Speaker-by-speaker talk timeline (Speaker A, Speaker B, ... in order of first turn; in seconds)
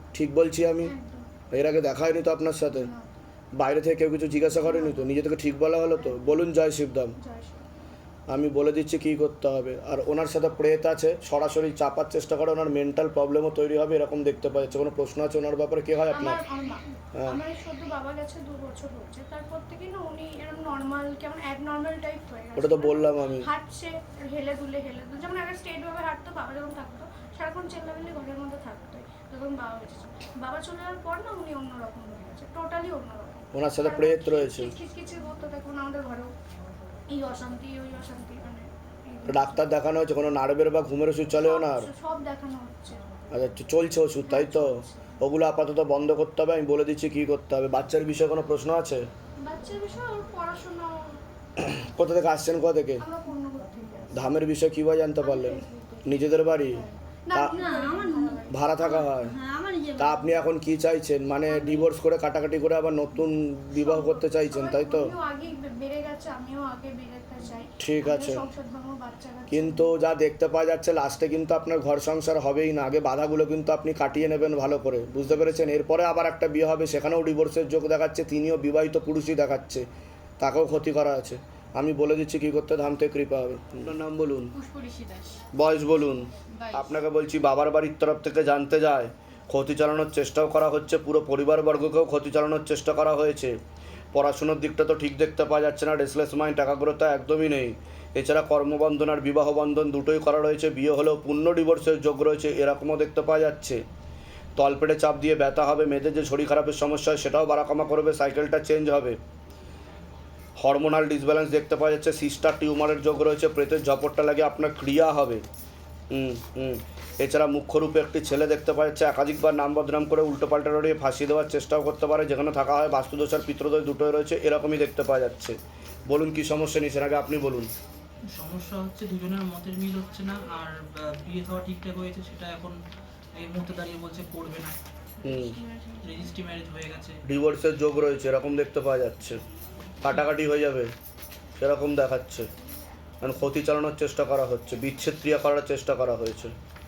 Speaker A: 0.1-0.9, 1.5-2.9, 3.6-7.2, 8.3-16.4, 17.1-17.4, 22.6-23.5, 33.5-34.8, 39.3-41.9, 43.3-49.1, 51.6-53.0, 54.1-57.6, 58.5-59.3, 60.0-65.1, 67.8-68.5, 69.5-79.9, 80.4-84.5, 85.5-93.6, 94.1-103.8, 104.6-109.2, 110.6-115.4, 116.1-125.6, 126.1-127.7, 135.2-135.6, 137.3-139.4, 140.0-140.9, 141.6-142.5, 143.2-146.5
Speaker B: 0.8-1.3, 2.8-3.1, 4.6-5.1, 6.0-6.4, 7.2-7.6, 16.1-36.3, 37.1-39.6, 41.3-43.0, 44.2-45.0, 49.4-51.2, 53.0-54.4, 55.2-58.5, 61.5-61.9, 63.8-69.9
Speaker C: 57.7-58.3, 59.2-60.1, 84.5-85.5, 86.5-86.9
Speaker D: 128.3-132.8, 133.3-134.8, 136.0-137.2